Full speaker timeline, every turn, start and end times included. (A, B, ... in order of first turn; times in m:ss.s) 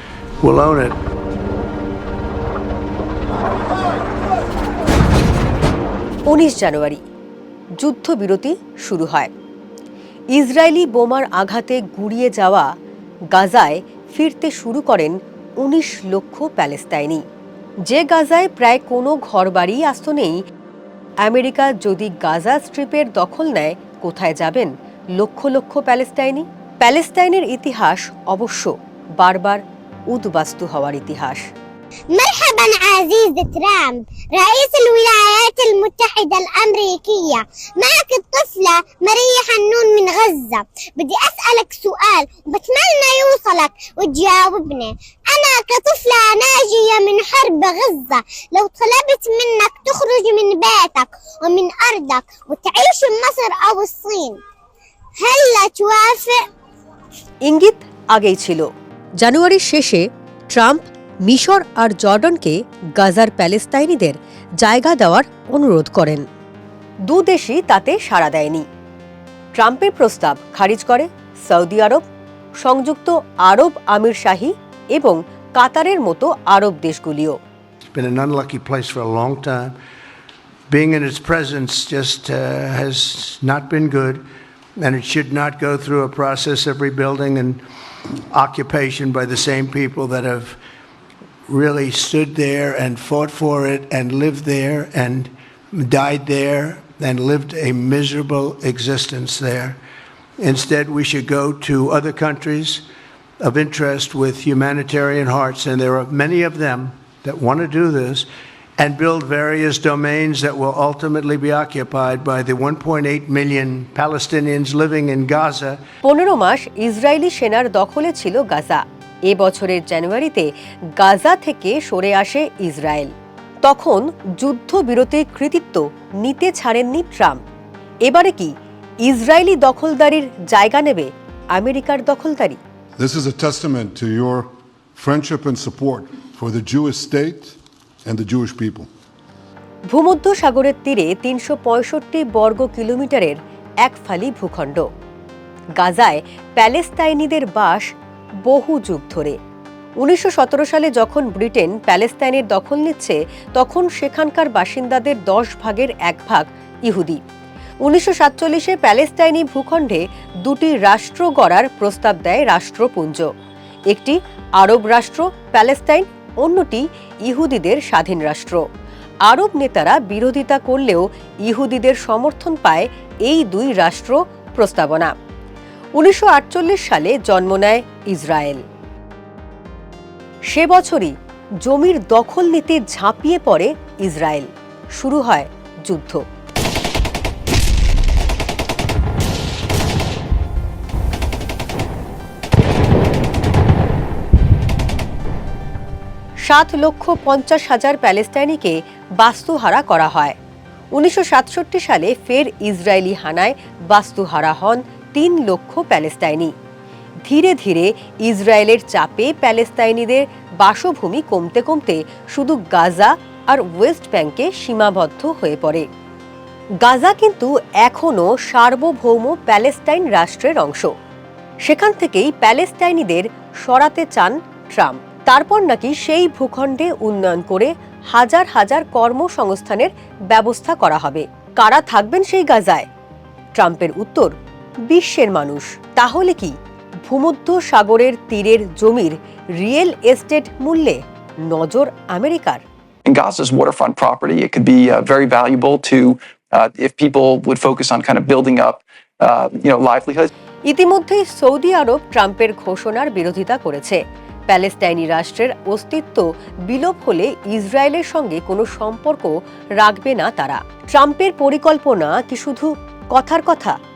0:00.4-0:01.0 A
0:06.3-0:07.0 B
0:07.8-0:09.3 B
0:10.3-0:12.7 B
0:13.3-0:17.2 B
0:17.9-0:20.4 B
0:21.2-0:31.5 B
0:32.1-0:54.4 C
0:55.2-0:56.4 C
0:57.5-0:58.7 B
0:59.2-1:06.2 B
1:07.1-1:08.6 B
1:09.6-1:12.0 B
1:12.6-1:17.4 B
1:17.8-1:19.8 A
1:20.7-1:24.2 A
1:24.8-1:27.6 A
1:28.3-1:30.6 A
1:31.5-1:39.8 A
1:40.4-1:42.8 A
1:43.4-1:48.3 A
1:48.8-1:55.8 A
1:56.0-2:03.1 B
2:03.6-2:07.4 B
2:08.1-2:08.5 B
2:09.0-2:12.6 B
2:13.0-2:18.9 D
2:19.9-2:24.9 B
2:25.8-2:27.9 B
2:28.5-2:29.4 B
2:30.0-2:37.2 B
2:37.8-2:43.3 B
2:43.9-2:48.6 B
2:49.3-2:55.1 B
2:56.0-2:58.6 B
3:00.5-3:01.1 B
3:01.6-3:06.2 B
3:16.5-3:20.4 B
3:20.9-3:26.5 B
3:27.2-3:35.8 B
3:36.8-3:40.9 B
3:41.7-3:52.9 B
3:53.6-3:54.3 B
3:54.9-3:56.5 B
3:57.1-4:02.6 B
4:03.1-4:10.3 E
4:10.7-4:23.8 B